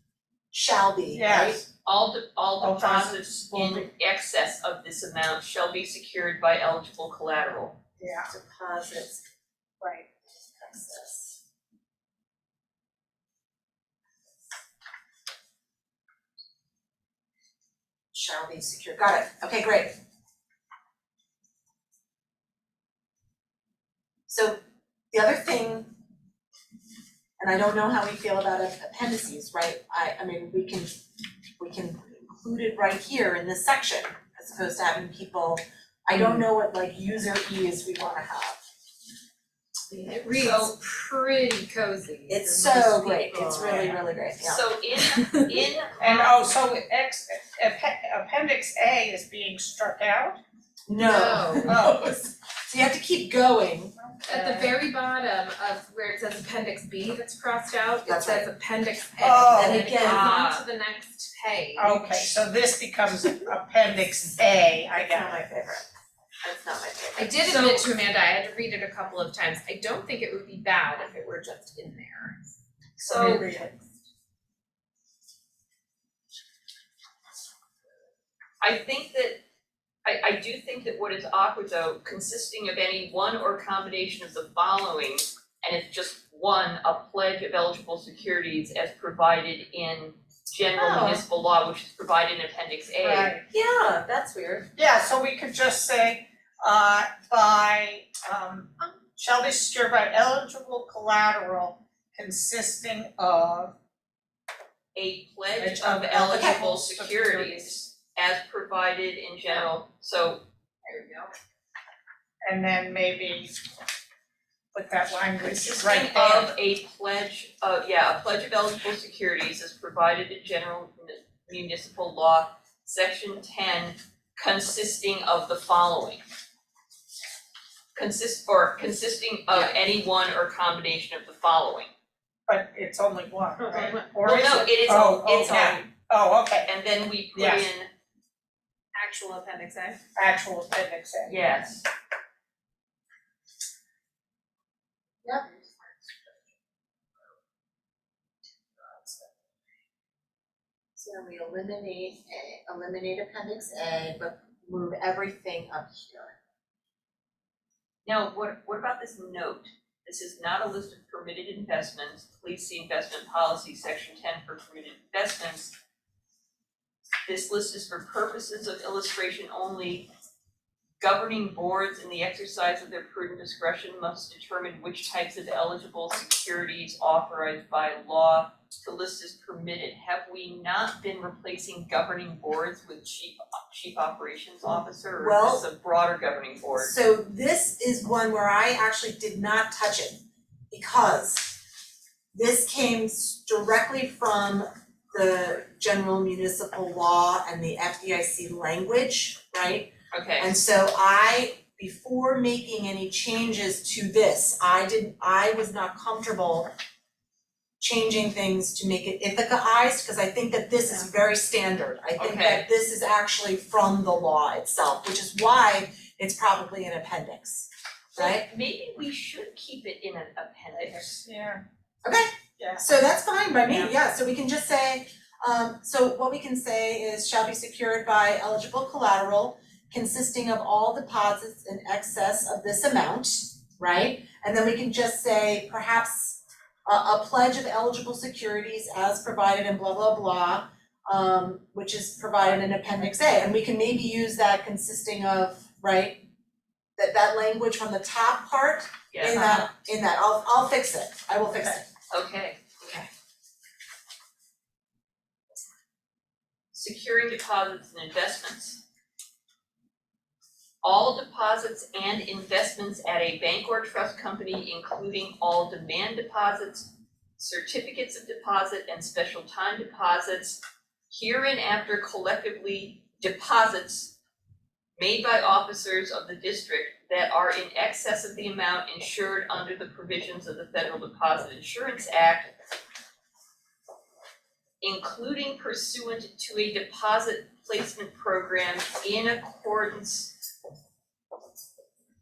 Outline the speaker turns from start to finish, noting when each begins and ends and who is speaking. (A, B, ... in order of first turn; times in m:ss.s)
0:00.5-0:01.6 A
0:01.1-0:01.6 B
0:01.8-0:07.8 C
0:02.6-0:03.2 B
0:03.5-0:03.9 A
0:08.0-0:08.3 B
0:08.3-0:09.2 A
0:10.6-0:11.4 A
0:18.1-0:20.0 A
0:24.3-0:24.6 A
0:25.1-0:25.9 A
0:27.4-0:31.0 A
0:31.6-0:38.6 A
0:39.9-0:44.0 D
0:40.3-0:40.7 C
0:42.3-0:44.7 A
0:43.0-0:43.4 C
0:44.4-0:46.2 C
0:45.2-0:45.5 D
0:46.0-0:50.4 B
0:50.9-0:54.0 A
0:51.0-0:51.9 D
0:51.7-0:52.0 B
0:54.0-0:54.8 B
0:54.3-1:02.4 D
0:58.1-0:58.5 A
0:59.2-0:59.9 B
0:59.5-1:00.3 A
1:00.0-1:00.6 C
1:01.8-1:05.4 B
1:05.0-1:05.9 A
1:06.4-1:07.9 A
1:07.2-1:12.5 D
1:13.0-1:13.7 B
1:13.1-1:13.5 C
1:13.1-1:13.8 D
1:18.6-1:19.4 C
1:20.0-1:33.4 C
1:30.8-1:31.2 A
1:33.0-1:33.5 B
1:33.5-1:34.7 A
1:34.8-1:43.7 B
1:45.0-1:50.4 C
1:45.6-1:47.8 B
1:46.2-1:46.6 A
1:50.9-1:51.3 D
1:52.4-1:53.6 B
1:54.7-1:56.5 B
1:55.6-2:06.2 C
2:08.0-2:11.9 C
2:12.5-2:16.7 B
2:13.7-2:14.5 D
2:14.2-2:15.8 C
2:16.7-2:17.9 C
2:17.4-2:17.7 B
2:19.0-2:20.0 D
2:20.2-2:21.4 B
2:21.3-2:21.9 C
2:25.2-2:26.4 A
2:28.7-2:29.3 A
2:31.0-2:36.4 A
2:38.1-2:45.7 C
2:47.3-2:50.1 C
2:51.0-3:06.9 C
3:05.2-3:05.7 A
3:06.8-3:11.6 A
3:12.3-3:26.7 A
3:20.1-3:20.6 C
3:27.8-3:38.5 A
3:32.2-3:32.7 C
3:38.2-3:41.1 C
3:40.8-3:41.6 B
3:42.0-4:06.2 A
3:42.6-3:42.8 B
4:07.0-4:11.9 A
4:09.1-4:09.6 C
4:12.1-4:12.8 C
4:12.8-4:13.1 A
4:16.7-4:18.8 C
4:20.8-4:34.1 C
4:35.0-4:42.5 C
4:44.8-4:50.3 C